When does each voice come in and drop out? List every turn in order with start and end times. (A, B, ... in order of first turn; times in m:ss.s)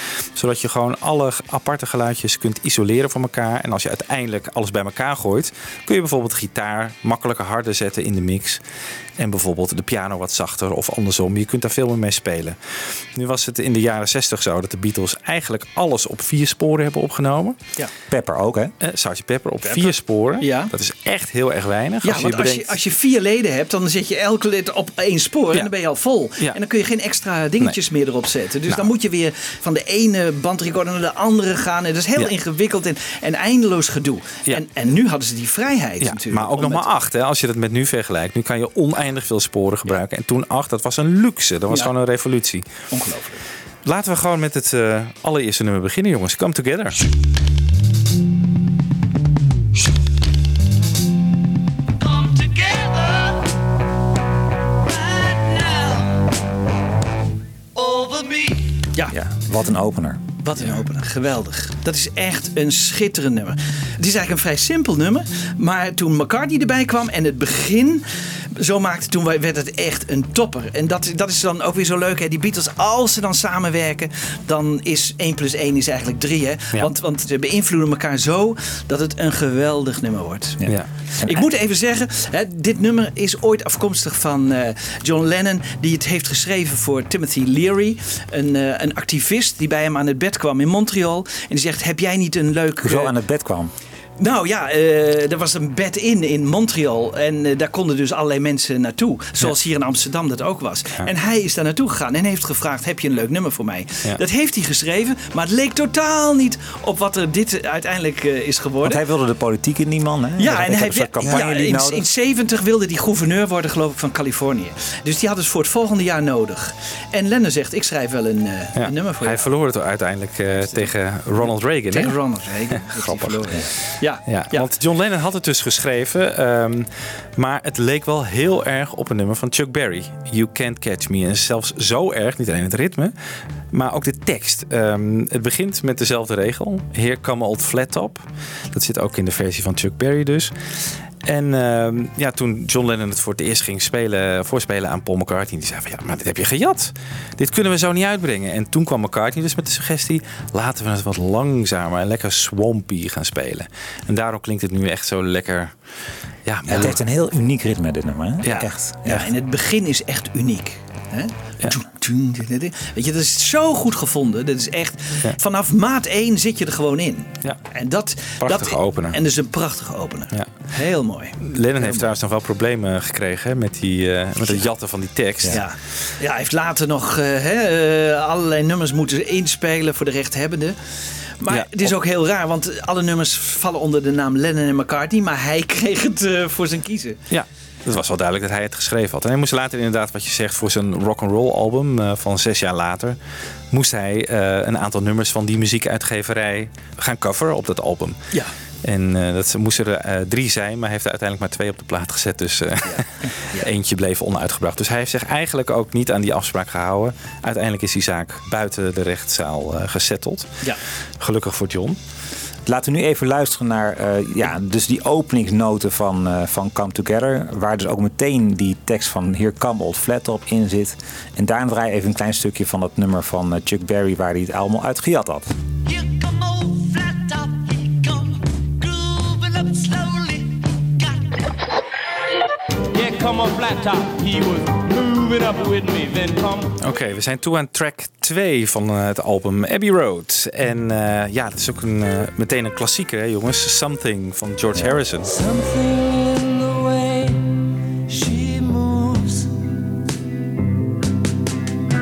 0:00.4-0:08.6 A
0:09.2-0:17.6 A
0:18.1-0:18.7 B
0:18.8-0:22.7 A
0:19.6-0:20.7 C
0:22.0-0:36.8 C
0:36.0-0:42.7 A
0:42.9-0:43.4 C
0:43.8-0:47.0 A
0:52.0-0:53.4 D
0:54.8-0:56.2 D
0:57.8-0:58.7 D
0:59.1-1:00.2 B
1:00.4-1:20.6 C
1:20.6-1:21.5 B
1:21.2-1:33.1 C
1:32.8-1:33.7 B
1:34.2-1:49.0 C
1:48.8-1:52.1 B
1:50.4-1:59.5 C
1:58.8-2:02.2 A
2:01.9-2:04.7 C
2:02.9-2:03.6 A
2:04.3-2:13.1 A
2:13.7-2:20.5 A
2:21.2-2:35.8 A
2:36.4-2:37.0 A
2:36.7-2:39.3 B
2:38.4-2:39.1 A
2:39.1-2:52.0 C
2:48.4-2:49.2 A
2:51.4-2:55.6 A
2:55.5-3:00.8 C
3:01.4-3:07.2 C
3:01.5-3:01.9 A
3:07.3-3:13.2 A
3:13.7-3:18.2 A
3:18.8-3:30.5 A
3:22.8-3:23.7 C
3:31.2-3:32.0 A
3:32.7-3:45.5 B
3:45.9-3:51.4 D
3:52.9-3:56.7 E
3:56.8-4:05.3 A
4:05.2-4:07.5 D
4:08.1-4:09.8 D